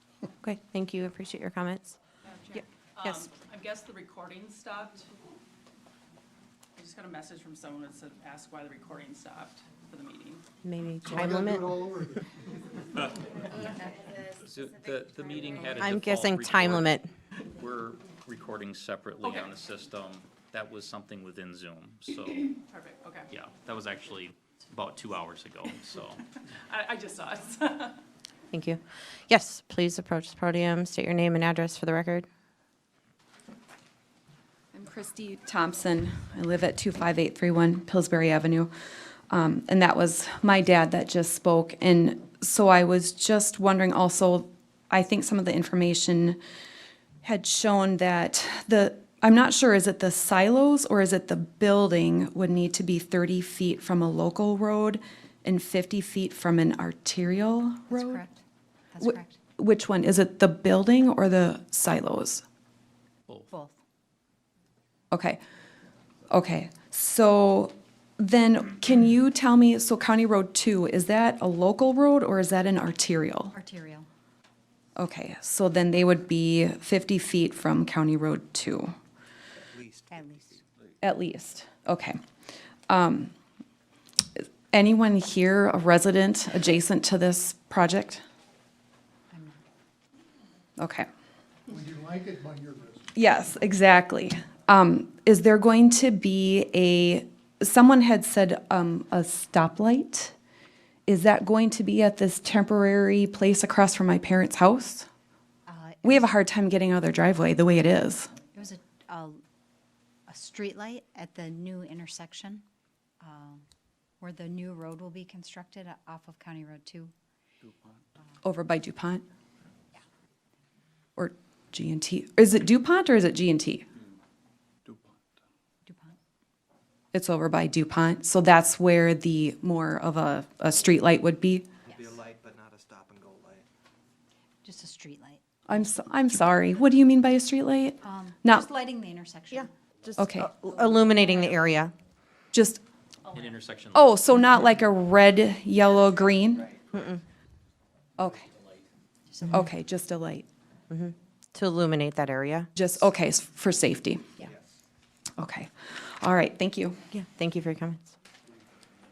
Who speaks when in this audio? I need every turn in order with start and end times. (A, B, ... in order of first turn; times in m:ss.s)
0:00.4-0:02.0 A
0:02.2-0:05.1 B
0:06.8-0:10.4 B
0:10.6-0:11.6 A
0:11.0-0:12.3 C
0:14.4-0:22.6 D
0:15.8-0:17.1 A
0:19.2-0:19.5 B
0:22.5-0:23.3 B
0:23.3-0:26.2 D
0:26.5-0:28.0 B
0:28.5-0:32.2 A
0:34.7-0:38.7 E
0:39.3-0:46.4 E
0:47.2-0:58.2 E
0:57.9-0:58.4 F
0:58.9-0:59.4 F
0:59.0-1:02.4 E
1:03.5-1:03.8 F
1:05.1-1:05.4 E
1:06.3-1:13.5 E
1:13.5-1:14.1 F
1:15.0-1:18.9 E
1:19.6-1:20.7 G
1:20.1-1:20.6 F
1:21.0-1:22.2 E
1:22.9-1:23.3 E
1:24.4-1:28.2 E
1:29.3-1:29.6 F
1:30.8-1:31.1 E
1:31.7-1:33.1 C
1:33.1-1:40.3 E
1:41.1-1:45.1 E
1:45.7-1:46.3 F
1:46.0-1:48.3 E
1:48.5-1:49.4 F
1:50.3-1:52.6 F
1:53.2-1:53.6 F
1:54.2-1:57.1 F
1:58.4-1:59.2 E
2:01.2-2:03.8 E
2:05.8-2:06.2 F
2:07.1-2:11.7 E
2:11.8-2:13.7 G
2:11.9-2:12.2 F
2:14.6-2:15.6 F
2:15.7-2:18.7 E
2:18.0-2:19.8 F
2:20.2-2:20.6 E
2:20.4-2:21.9 A
2:20.6-2:21.5 F
2:22.5-2:22.8 E
2:23.3-2:24.1 D
2:23.9-2:26.8 E
2:26.9-2:27.2 A
2:28.2-2:28.5 E
2:29.3-2:29.6 F
2:29.5-2:30.5 E
2:30.9-2:32.7 A
2:32.8-2:34.4 E
2:35.4-2:37.1 E
2:37.2-2:38.0 A